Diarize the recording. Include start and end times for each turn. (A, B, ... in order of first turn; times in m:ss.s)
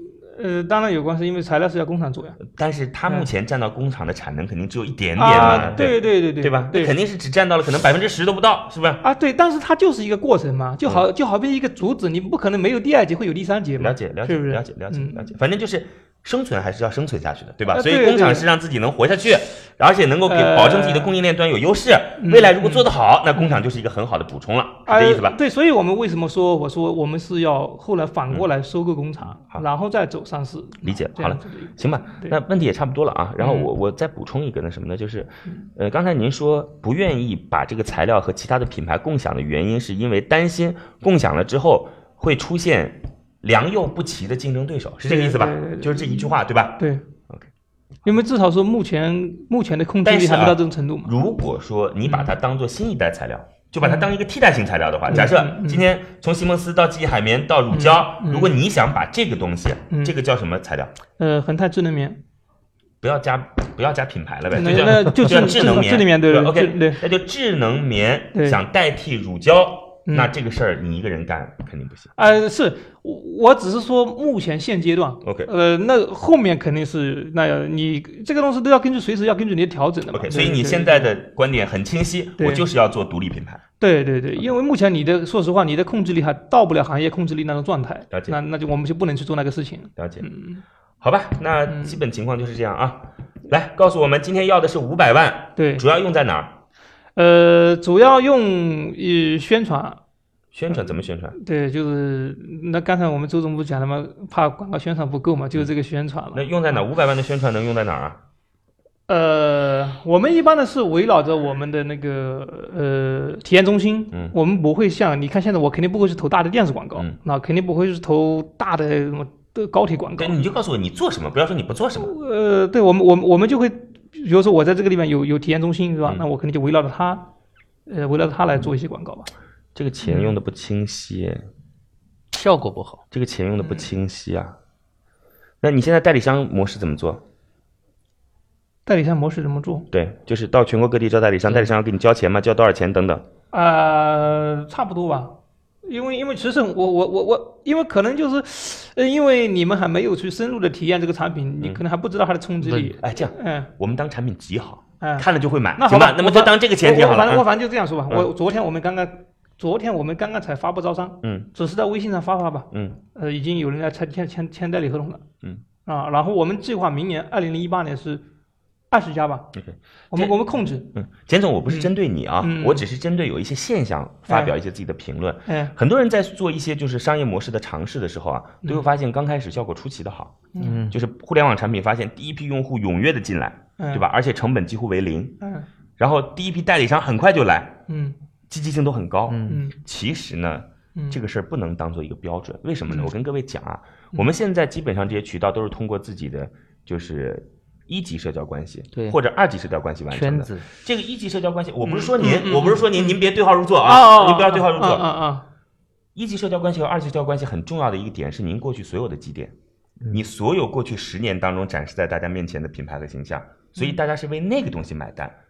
0:00.3-0:02.4 A
0:02.5-0:09.0 B
0:05.2-0:06.9 A
0:05.3-0:05.8 C
0:09.0-0:15.3 A
0:13.8-0:25.4 B
0:17.7-0:18.5 A
0:20.3-0:21.2 A
0:22.2-0:23.6 A
0:24.9-0:32.4 A
0:30.8-0:47.5 B
0:33.4-0:33.7 A
0:45.1-0:47.0 A
0:48.1-0:51.1 A
0:50.0-1:00.9 B
0:52.1-0:52.3 A
0:53.8-0:54.1 A
0:55.1-0:55.9 A
0:57.7-0:58.5 A
0:59.9-1:00.2 A
1:01.2-1:02.2 A
1:03.0-1:12.1 B
1:04.6-1:07.0 A
1:08.3-1:08.6 A
1:12.2-1:21.1 A
1:15.2-1:15.5 B
1:20.1-1:23.6 B
1:22.4-1:22.7 A
1:23.8-1:30.6 A
1:28.1-1:28.4 B
1:30.0-1:30.2 B
1:31.0-1:36.6 B
1:31.7-1:32.0 A
1:35.6-1:35.8 A
1:37.2-1:40.0 A
1:40.5-1:41.4 B
1:41.4-1:46.8 A
1:46.3-1:48.2 B
1:49.1-2:00.4 A
2:00.2-2:02.1 B
2:02.0-2:07.3 A
2:07.9-2:09.3 A
2:09.8-2:11.4 B
2:10.0-2:10.4 A
2:12.3-2:13.0 C
2:13.1-2:14.6 B
2:13.6-2:13.9 A
2:15.6-2:17.2 B
2:18.9-2:19.9 A
2:19.9-2:23.2 B
2:23.5-2:33.7 A
2:32.6-2:32.9 C
2:33.0-2:37.5 B
2:35.0-2:45.2 A
2:41.2-2:41.5 B
2:42.7-2:43.0 B
2:45.8-2:48.2 A
2:48.9-2:49.5 A
2:49.5-2:50.3 B
2:50.1-2:50.9 A
2:50.9-3:05.4 B
2:51.7-2:52.8 A
2:54.3-2:54.6 A
2:55.5-2:55.7 A
2:58.6-2:58.9 A
3:00.5-3:00.8 A
3:00.6-3:01.0 C
3:03.8-3:04.1 A
3:05.4-3:05.7 A
3:06.0-3:07.8 B
3:07.9-3:08.2 A
3:08.5-3:25.1 B
3:09.3-3:09.6 C
3:09.5-3:09.8 A
3:20.1-3:20.7 C
3:21.8-3:23.2 A
3:23.8-3:25.4 A
3:26.2-3:29.5 B
3:30.1-3:35.4 B